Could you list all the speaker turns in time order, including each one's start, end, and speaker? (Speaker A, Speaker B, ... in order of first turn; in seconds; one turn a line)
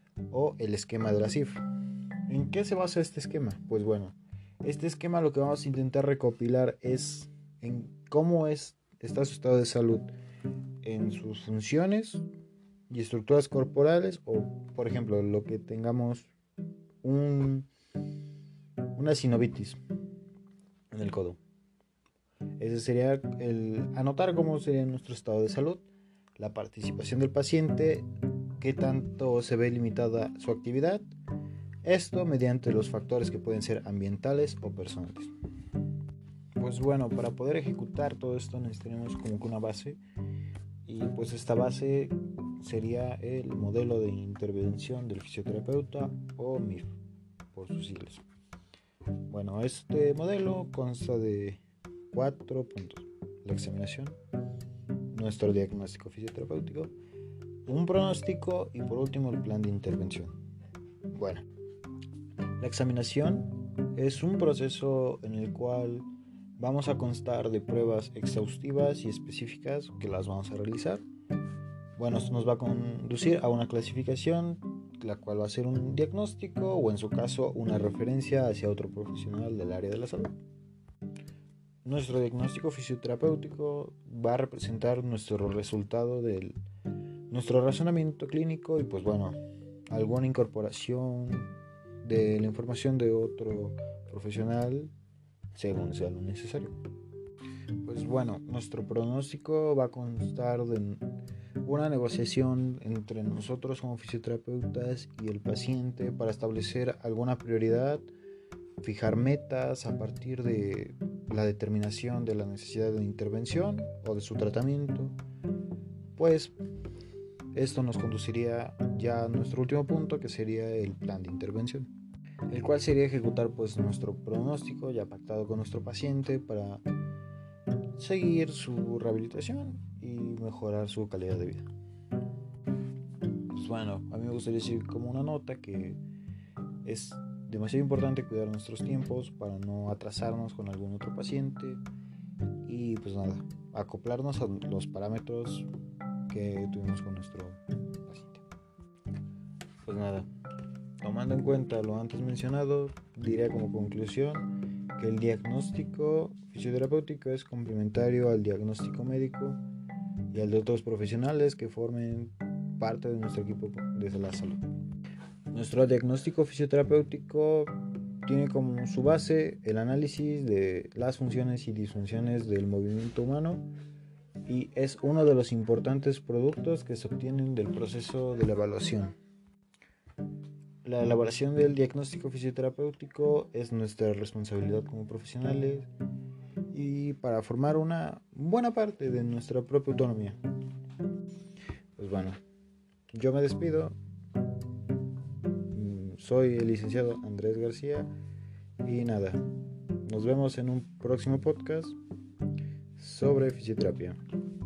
Speaker A: 0.3-1.6
Speaker A: 2.2-10.1
Speaker A: 10.8-12.2
Speaker A: 12.9-16.3
Speaker A: 17.0-17.7
Speaker A: 18.9-19.8
Speaker A: 20.9-21.4
Speaker A: 22.6-25.8
Speaker A: 26.4-28.1
Speaker A: 28.6-31.0
Speaker A: 31.8-35.3
Speaker A: 36.6-40.0
Speaker A: 40.8-47.0
Speaker A: 47.5-48.2
Speaker A: 49.3-54.2
Speaker A: 55.1-56.9
Speaker A: 57.6-60.3
Speaker A: 61.1-61.4
Speaker A: 62.6-66.1
Speaker A: 66.6-71.0
Speaker A: 72.0-80.3
Speaker A: 81.8-86.6
Speaker A: 87.3-89.3
Speaker A: 89.9-94.9
Speaker A: 95.5-96.7
Speaker A: 97.8-108.0
Speaker A: 108.8-115.2
Speaker A: 116.2-116.5
Speaker A: 117.5-121.9
Speaker A: 122.5-126.8
Speaker A: 128.0-131.7
Speaker A: 133.5-136.0
Speaker A: 136.8-141.8
Speaker A: 142.7-145.7
Speaker A: 146.3-148.4
Speaker A: 149.8-150.3
Speaker A: 151.0-159.6
Speaker A: 160.3-164.6
Speaker A: 165.5-173.7
Speaker A: 174.5-179.2
Speaker A: 180.8-185.9
Speaker A: 186.7-190.4
Speaker A: 192.0-192.4
Speaker A: 193.1-193.9
Speaker A: 195.7-198.1
Speaker A: 198.8-199.4
Speaker A: 200.0-202.0
Speaker A: 203.0-204.2